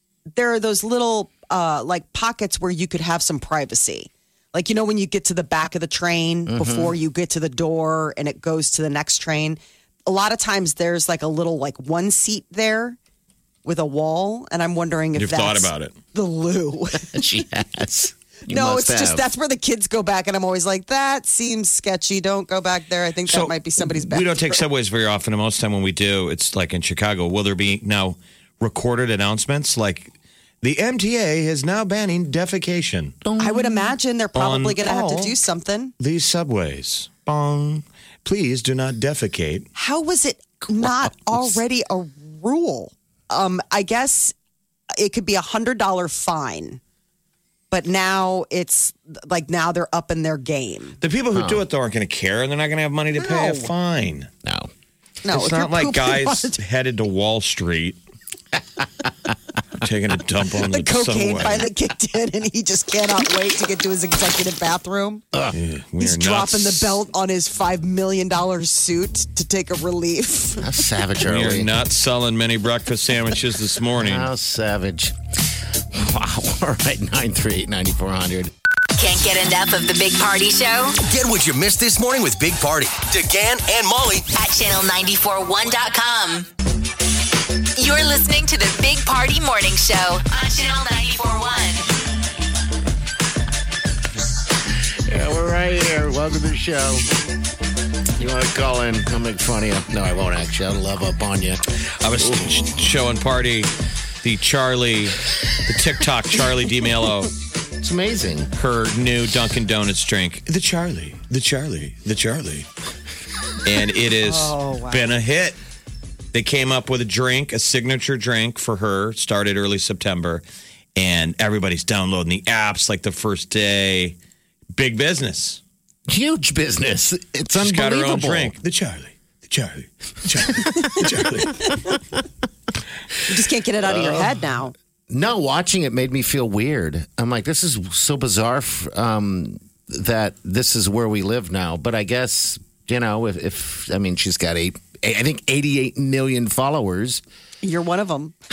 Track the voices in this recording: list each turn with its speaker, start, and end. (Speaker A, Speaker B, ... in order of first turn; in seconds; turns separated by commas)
Speaker A: 0.3-13.0, Speaker B: 6.5-7.0, Speaker A: 13.6-17.2, Speaker C: 15.1-15.9, Speaker B: 17.0-19.2, Speaker A: 18.5-24.5, Speaker C: 23.2-33.2, Speaker B: 33.2-33.9, Speaker A: 33.4-35.9, Speaker C: 34.3-35.3, Speaker C: 36.0-39.7, Speaker A: 39.7-44.3, Speaker A: 45.0-46.8, Speaker A: 47.7-51.0, Speaker C: 51.0-54.3, Speaker B: 51.3-51.6, Speaker A: 53.2-53.7, Speaker B: 54.4-54.7, Speaker A: 55.2-56.6, Speaker C: 55.3-58.0, Speaker C: 59.8-61.7, Speaker A: 60.7-65.2, Speaker C: 65.5-67.0, Speaker A: 66.0-70.8, Speaker B: 70.6-71.7, Speaker C: 71.2-74.3, Speaker B: 74.0-75.1, Speaker B: 75.9-78.5, Speaker D: 79.0-81.0, Speaker E: 81.0-84.3, Speaker D: 84.3-86.5, Speaker D: 87.8-91.9, Speaker B: 95.1-97.0, Speaker B: 98.2-101.6, Speaker C: 102.0-103.7, Speaker B: 102.2-102.7, Speaker C: 104.2-107.3, Speaker B: 107.8-108.5, Speaker C: 108.5-112.7, Speaker C: 113.6-115.6, Speaker A: 114.2-115.1, Speaker C: 116.3-120.4, Speaker C: 121.0-124.2, Speaker C: 124.8-125.6, Speaker B: 126.1-128.5, Speaker C: 127.5-131.8, Speaker A: 133.3-134.7, Speaker B: 133.8-134.4, Speaker B: 135.1-147.2, Speaker A: 147.6-148.3